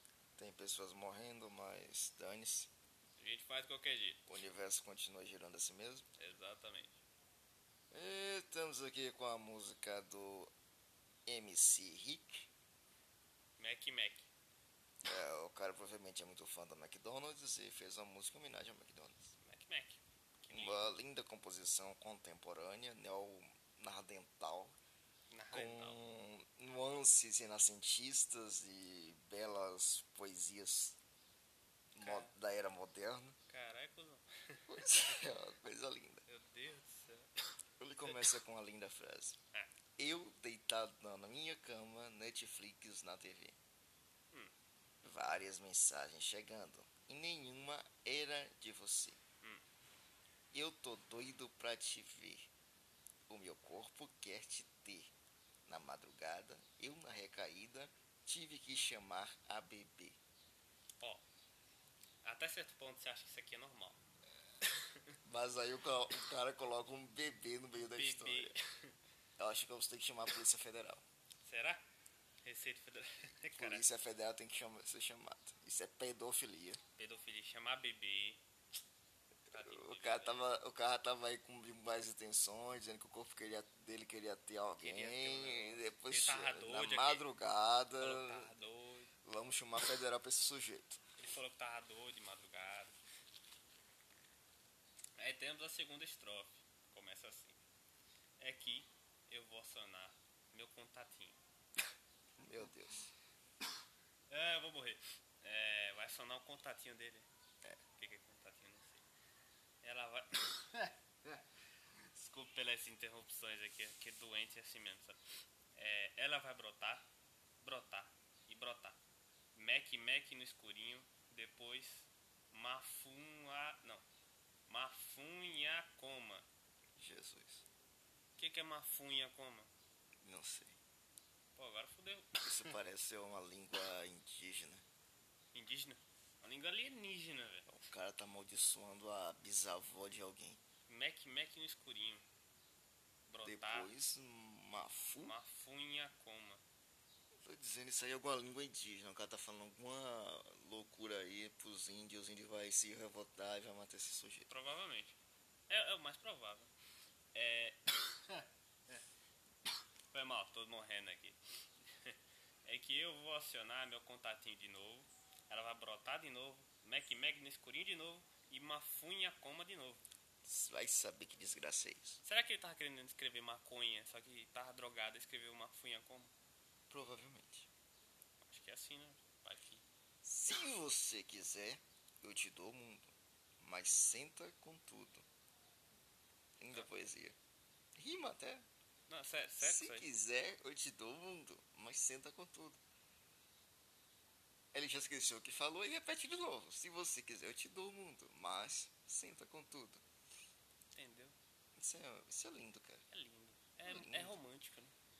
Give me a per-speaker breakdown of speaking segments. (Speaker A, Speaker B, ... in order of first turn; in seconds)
Speaker A: 0.4-2.7, 4.3-6.0, 7.9-10.5, 11.2-12.5, 15.0-19.3, 20.5-24.8, 25.5-31.0, 31.9-33.4, 34.7-36.2, 37.8-39.4, 40.0-43.6, 45.0-49.2, 50.5-52.5, 53.3-55.1, 55.6-60.2, 65.2-68.5, 69.4-71.0, 73.5-76.8, 79.5-88.5, 89.2-91.0, 102.4-103.1, 127.0-127.6, 130.2-130.8, 132.4-134.8, 137.7-140.6, 143.4-145.4, 147.4-154.5, 170.4-172.2, 176.9-177.7, 180.2-185.2, 186.6-187.4, 187.9-188.7, 189.6-192.8, 194.7-200.0, 201.8-203.0, 203.8-204.3
Speaker B: 3.2-4.3, 6.2-7.0, 13.6-14.3, 19.4-20.9, 25.3-26.0, 32.0-32.3, 33.5-35.3, 36.3-37.3, 38.0-38.3, 62.2-64.0, 64.6-65.1, 67.7-68.9, 71.4-71.8, 72.4-74.0, 77.0-78.4, 79.5-80.5, 84.8-87.2, 88.0-89.1, 91.2-93.0, 95.2-97.6, 98.4-101.4, 104.3-107.3, 108.0-109.0, 109.8-111.4, 112.1-115.2, 115.7-117.0, 117.6-119.0, 119.5-124.0, 124.7-126.5, 128.4-129.7, 131.6-132.8, 135.5-137.7, 140.9-142.2, 143.3-143.9, 145.2-146.6, 154.5-155.2, 155.7-156.7, 157.3-159.0, 160.1-161.4, 162.0-170.0, 172.2-176.3, 178.4-179.8, 189.1-190.1, 200.9-201.3, 203.1-204.9